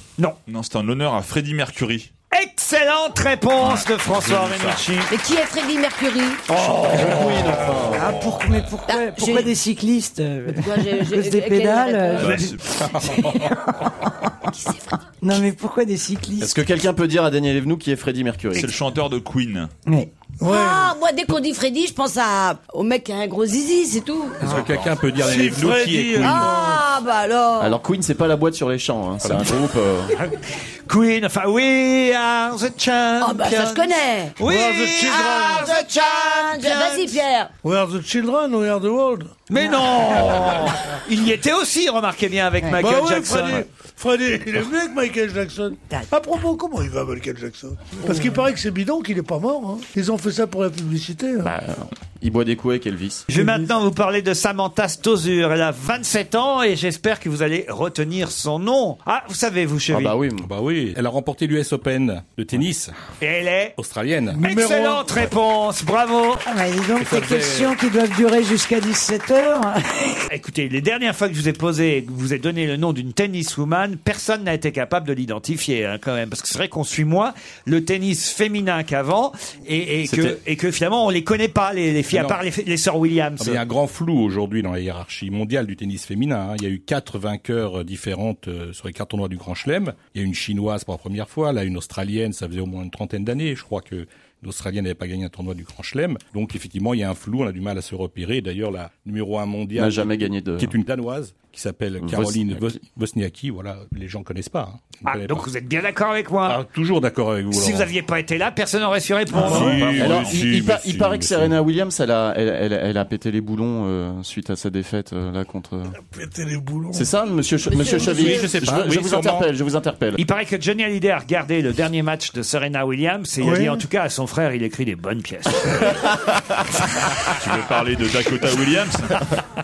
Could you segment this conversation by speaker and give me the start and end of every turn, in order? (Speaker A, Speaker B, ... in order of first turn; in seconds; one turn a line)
Speaker A: 0.5-2.1
Speaker B: 2.3-5.1
Speaker A: 3.6-4.8
Speaker C: 5.1-6.4
Speaker D: 6.5-8.1
Speaker E: 7.9-14.4
Speaker C: 8.9-9.5
Speaker C: 10.5-12.4
Speaker A: 12.2-12.7
Speaker C: 14.6-14.9
Speaker E: 15.2-16.5
Speaker D: 16.4-18.7
Speaker A: 18.6-19.7
Speaker E: 19.9-20.1
Speaker F: 20.4-21.0
Speaker C: 20.4-24.4
Speaker G: 24.4-26.5
Speaker A: 24.4-24.9
Speaker F: 25.2-26.9
Speaker C: 26.2-27.8
Speaker D: 27.6-30.1
Speaker G: 29.2-29.6
Speaker B: 30.1-37.2
Speaker C: 33.2-34.4
Speaker F: 34.4-35.8
Speaker C: 35.1-37.5
Speaker F: 37.6-39.3
Speaker B: 39.5-43.6
Speaker F: 42.8-51.5
Speaker D: 51.4-53.3
Speaker B: 53.3-60.1
Speaker F: 53.3-53.7
Speaker D: 59.9-60.5
Speaker G: 60.4-62.9
Speaker B: 63.2-63.8
Speaker G: 63.8-64.4
Speaker F: 64.3-65.2
Speaker B: 64.4-66.5
Speaker E: 66.5-70.2
Speaker G: 67.0-67.7
Speaker B: 70.3-83.6
Speaker D: 80.1-80.4
Speaker G: 82.1-82.4
Speaker G: 83.4-105.5
Speaker D: 99.8-100.8
Speaker D: 102.0-102.8
Speaker B: 105.1-106.6
Speaker G: 106.5-107.9
Speaker B: 107.5-110.3
Speaker A: 109.3-110.6
Speaker G: 109.3-111.6
Speaker D: 109.5-116.0
Speaker F: 116.0-117.1
Speaker D: 116.9-120.2
Speaker F: 117.8-118.5
Speaker G: 118.0-119.5
Speaker B: 120.2-126.0
Speaker F: 123.4-123.8
Speaker A: 127.4-129.2